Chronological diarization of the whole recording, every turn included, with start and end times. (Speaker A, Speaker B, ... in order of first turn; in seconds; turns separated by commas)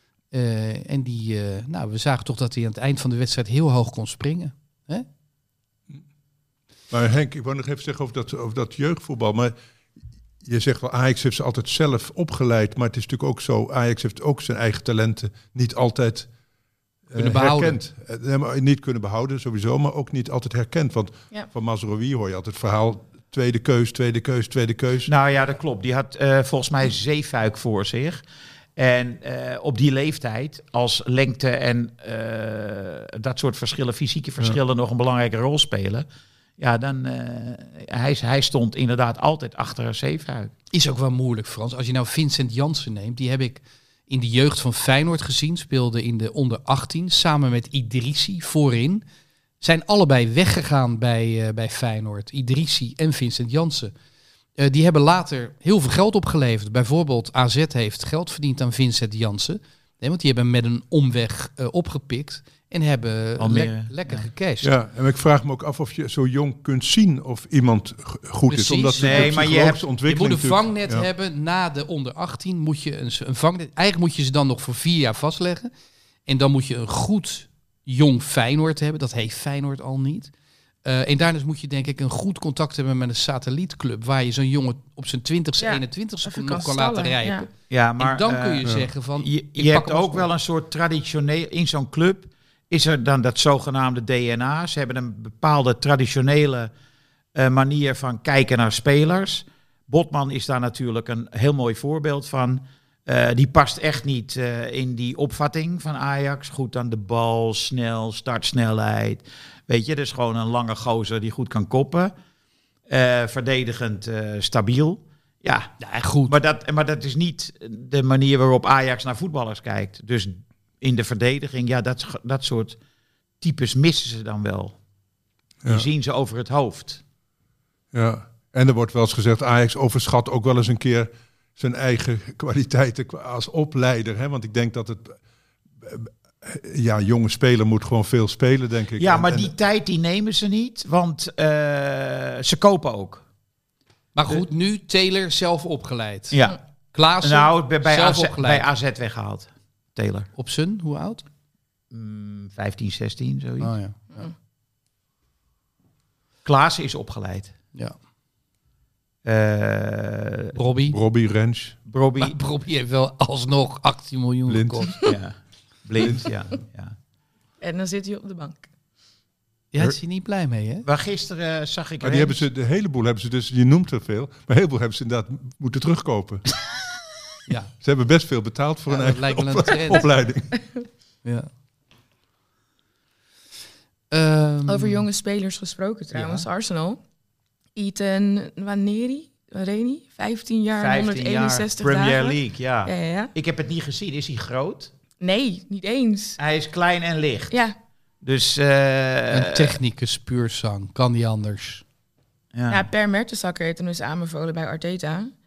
Speaker A: 0.3-5.1, Speaker B: 6.9-9.5, Speaker B: 10.4-16.3, Speaker B: 17.1-25.1, Speaker A: 17.1-17.8, Speaker C: 25.1-28.2, Speaker C: 28.8-36.1, Speaker C: 36.6-40.5, Speaker A: 40.7-49.0, Speaker A: 49.6-53.9, Speaker A: 54.6-64.7, Speaker C: 63.4-64.2, Speaker B: 64.6-71.1, Speaker A: 68.5-75.7, Speaker C: 69.0-69.8, Speaker A: 76.3-80.3, Speaker A: 80.8-90.3, Speaker D: 85.6-87.5, Speaker C: 87.7-96.7, Speaker C: 97.3-112.1, Speaker C: 112.9-115.7, Speaker A: 115.8-116.3, Speaker C: 116.3-122.8, Speaker C: 123.4-124.7, Speaker C: 125.7-127.0, Speaker B: 127.9-135.2, Speaker B: 135.8-139.5, Speaker C: 139.0-143.2, Speaker A: 144.1-146.4, Speaker C: 146.3-146.6, Speaker A: 146.9-148.7, Speaker C: 147.2-150.3, Speaker A: 150.4-151.2, Speaker C: 151.9-153.7, Speaker A: 153.6-154.3, Speaker C: 156.4-157.5, Speaker C: 159.2-160.5, Speaker A: 160.5-161.0, Speaker B: 160.9-161.8, Speaker C: 161.9-162.4, Speaker A: 162.2-165.0, Speaker B: 164.5-165.0, Speaker C: 165.0-166.9, Speaker B: 166.0-166.3, Speaker D: 167.6-168.7, Speaker A: 169.7-170.9, Speaker C: 170.8-172.4, Speaker B: 172.0-176.4, Speaker B: 177.8-180.6, Speaker A: 178.9-180.1, Speaker A: 184.1-185.1, Speaker D: 184.7-187.0, Speaker A: 186.1-186.4, Speaker D: 187.8-193.3, Speaker C: 190.8-194.9, Speaker D: 195.2-196.4, Speaker C: 196.4-197.5, Speaker C: 198.2-199.8, Speaker A: 199.3-201.8, Speaker C: 202.5-202.9, Speaker D: 202.7-205.3